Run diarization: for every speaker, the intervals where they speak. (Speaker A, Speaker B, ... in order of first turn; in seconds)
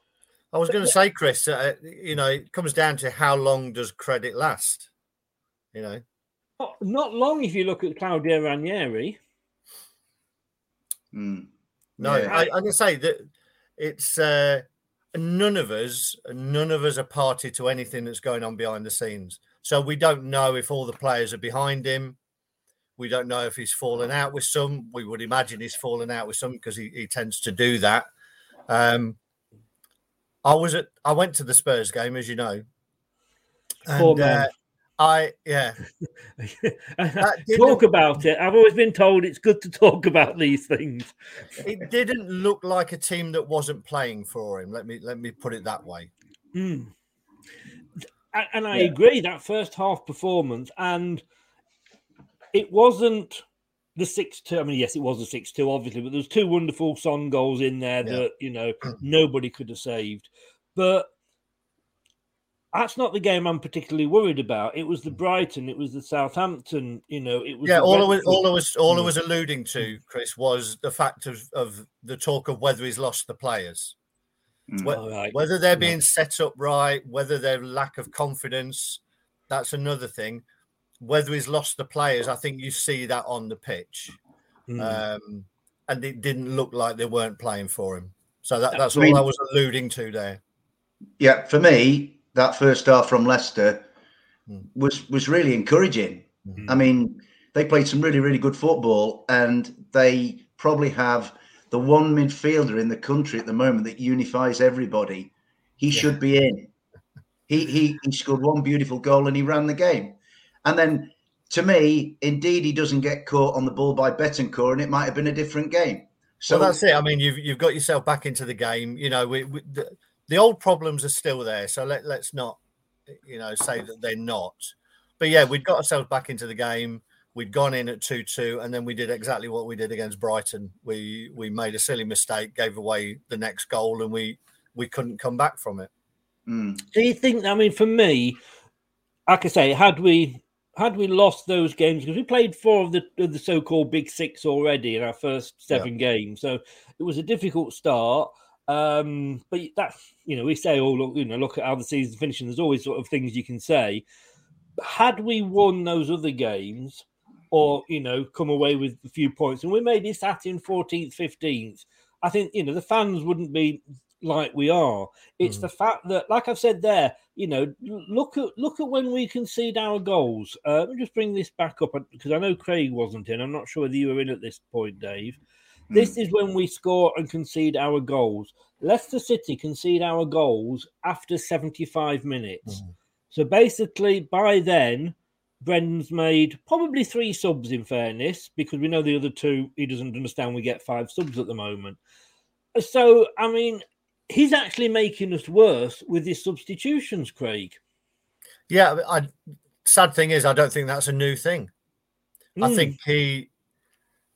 Speaker A: 0.5-4.9, 5.7-6.0, 12.0-22.2, 23.0-28.1, 28.7-29.2, 30.4-32.6, 33.9-35.8, 37.2-37.9, 41.6-46.1, 67.7-74.0, 74.8-80.4, 81.0-84.2, 84.8-90.4, 116.5-122.6, 123.2-135.9, 198.7-199.3, 199.8-201.7, 202.6-203.5
Speaker B: 6.6-9.2, 33.9-34.5, 36.4-41.1, 46.5-46.9, 48.3-51.2, 52.5-53.4, 54.0-61.1, 62.7-69.1, 74.8-76.0, 84.7-85.0, 136.9-138.4, 139.3-154.0, 154.8-175.4, 175.9-182.8, 183.3-192.0, 192.8-197.8, 202.6-202.9
Speaker C: 11.1-12.4, 74.7-75.0, 88.9-89.2, 91.2-93.8, 94.7-106.7, 107.5-116.8, 136.5-136.8